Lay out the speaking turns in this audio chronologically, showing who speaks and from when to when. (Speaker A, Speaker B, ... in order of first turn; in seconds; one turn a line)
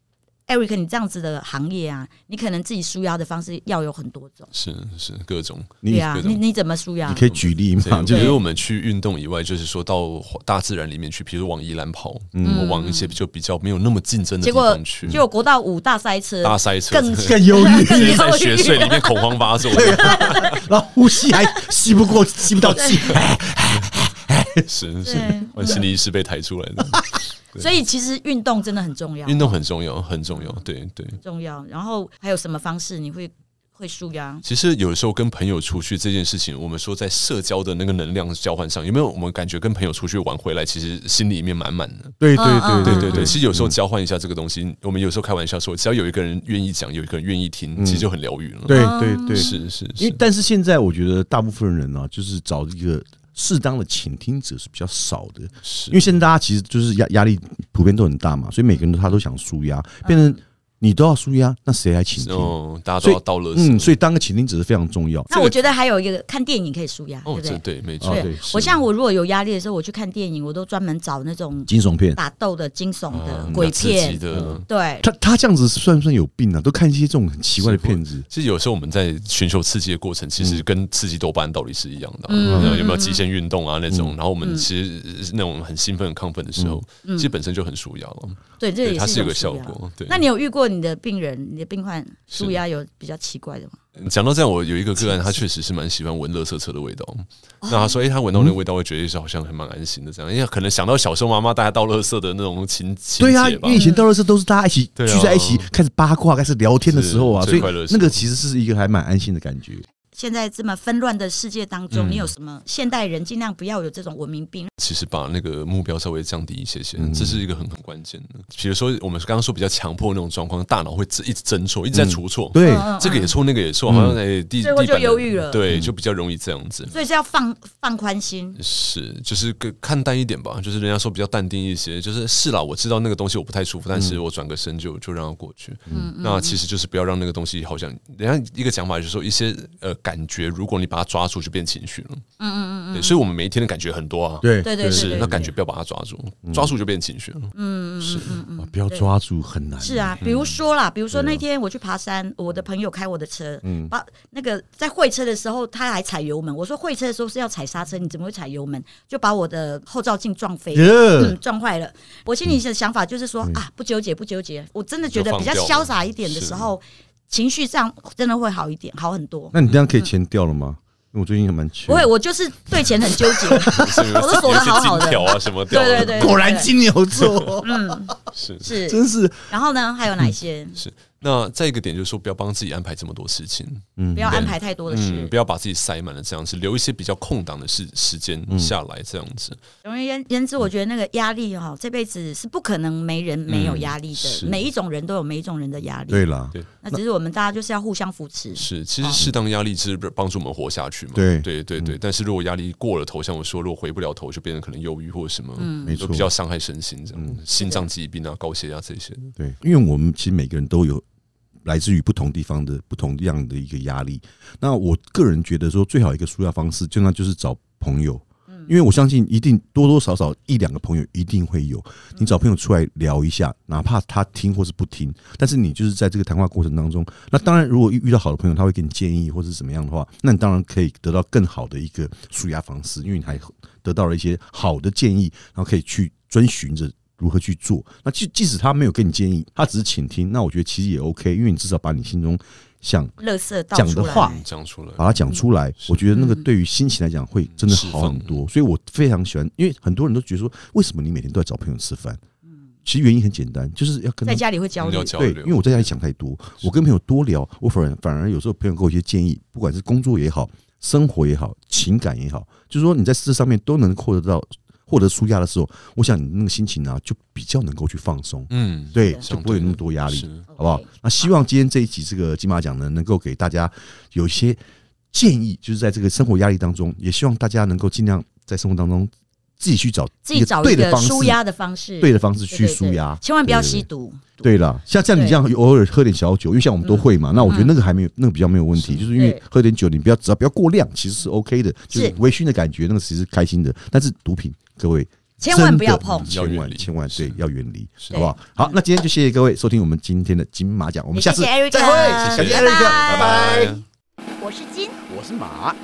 Speaker A: 0.5-4.5
Speaker B: 4.5-6.4
Speaker C: 5.8-6.1
Speaker A: 5.8-7.2
Speaker C: 7.0-8.4
Speaker B: 7.1-15.2
Speaker A: 8.1-8.4
Speaker C: 12.3-12.7
Speaker A: 12.4-13.1
Speaker A: 14.4-20.6
Speaker B: 16.4-20.6
Speaker C: 17.2-18.4
Speaker C: 19.7-25.8
Speaker A: 21.3-21.6
Speaker B: 22.6-23.2
Speaker A: 22.8-23.2
Speaker B: 24.6-27.6
Speaker A: 25.0-25.8
Speaker A: 27.6-29.6
Speaker B: 29.2-31.2
Speaker A: 31.2-34.4
Speaker B: 34.4-42.2
Speaker C: 42.2-43.8
Speaker A: 42.3-43.4
Speaker B: 42.8-50.2
Speaker C: 47.8-48.0
Speaker C: 48.6-65.3
Speaker A: 48.7-49.5
Speaker B: 55.6-56.1
Speaker A: 60.0-60.4
Speaker B: 62.2-64.0
Speaker B: 65.3-65.6
Speaker A: 65.3-75.0
Speaker B: 67.2-68.8
Speaker C: 68.0-68.4
Speaker C: 71.7-72.2
Speaker B: 73.1-74.7
Speaker C: 74.3-78.2
Speaker B: 77.6-90.2
Speaker C: 80.4-80.6
Speaker A: 82.3-83.2
Speaker C: 82.4-82.8
Speaker C: 83.9-84.1
Speaker A: 87.0-87.3
Speaker A: 88.6-93.8
Speaker B: 92.3-92.6
Speaker B: 94.0-103.8
Speaker A: 97.6-98.0
Speaker C: 103.2-109.8
Speaker A: 103.7-104.0
Speaker B: 105.0-105.7
Speaker B: 106.8-108.2
Speaker A: 110.1-114.7
Speaker B: 111.9-112.3
Speaker B: 114.8-126.9
Speaker C: 117.0-117.4
Speaker C: 121.9-122.9
Speaker A: 122.6-123.3
Speaker C: 123.9-124.2
Speaker A: 124.6-125.6
Speaker C: 125.7-125.9
Speaker A: 126.9-128.6
Speaker B: 128.6-142.2
Speaker A: 135.9-136.6
Speaker A: 142.4-143.2
Speaker B: 142.9-148.4
Speaker C: 144.4-145.5
Speaker A: 144.6-145.5
Speaker C: 146.4-146.7
Speaker A: 147.5-149.1
Speaker C: 148.6-150.2
Speaker A: 149.8-170.1
Speaker B: 150.2-150.6
Speaker C: 151.1-151.4
Speaker C: 153.6-153.9
Speaker C: 160.7-161.4
Speaker B: 165.1-166.7
Speaker C: 169.5-172.1
Speaker A: 171.9-176.7
Speaker C: 173.2-173.9
Speaker B: 173.7-176.5
Speaker C: 175.9-178.0
Speaker B: 177.2-177.5
Speaker A: 177.6-180.8
Speaker B: 178.3-178.8
Speaker C: 178.7-179.5
Speaker B: 180.7-189.6
Speaker C: 184.0-184.5
Speaker A: 184.1-185.3
Speaker C: 188.5-188.7
Speaker A: 189.8-196.3
Speaker B: 193.5-194.6
Speaker C: 196.1-197.0
Speaker A: 196.8-199.3
Speaker B: 198.6-209.3
Speaker C: 201.1-202.0
Speaker A: 205.6-206.0
Speaker C: 205.8-206.3
Speaker A: 207.6-207.9
Speaker C: 209.4-211.0
Speaker C: 211.6-243.2
Speaker A: 243.2-244.4
Speaker C: 243.7-244.4
Speaker B: 244.2-245.3
Speaker C: 245.0-252.2
Speaker B: 245.8-246.1
Speaker A: 246.1-246.4
Speaker B: 247.5-248.4
Speaker C: 252.8-254.4
Speaker A: 254.2-255.1
Speaker B: 254.8-255.9
Speaker C: 255.1-274.6
Speaker B: 268.5-270.4
Speaker A: 268.9-269.2
Speaker A: 270.5-271.3
Speaker C: 275.1-281.4
Speaker A: 280.2-284.5
Speaker C: 282.0-283.9
Speaker C: 284.4-303.8
Speaker A: 285.1-285.4
Speaker A: 286.8-287.7
Speaker B: 287.4-287.6
Speaker B: 288.8-289.1
Speaker A: 289.1-289.4
Speaker A: 291.9-292.2
Speaker A: 295.4-296.3
Speaker B: 296.1-297.4
Speaker B: 298.0-298.2
Speaker A: 298.1-298.8
Speaker A: 301.1-303.5
Speaker B: 302.2-303.8
Speaker A: 304.4-305.0
Speaker C: 305.1-305.8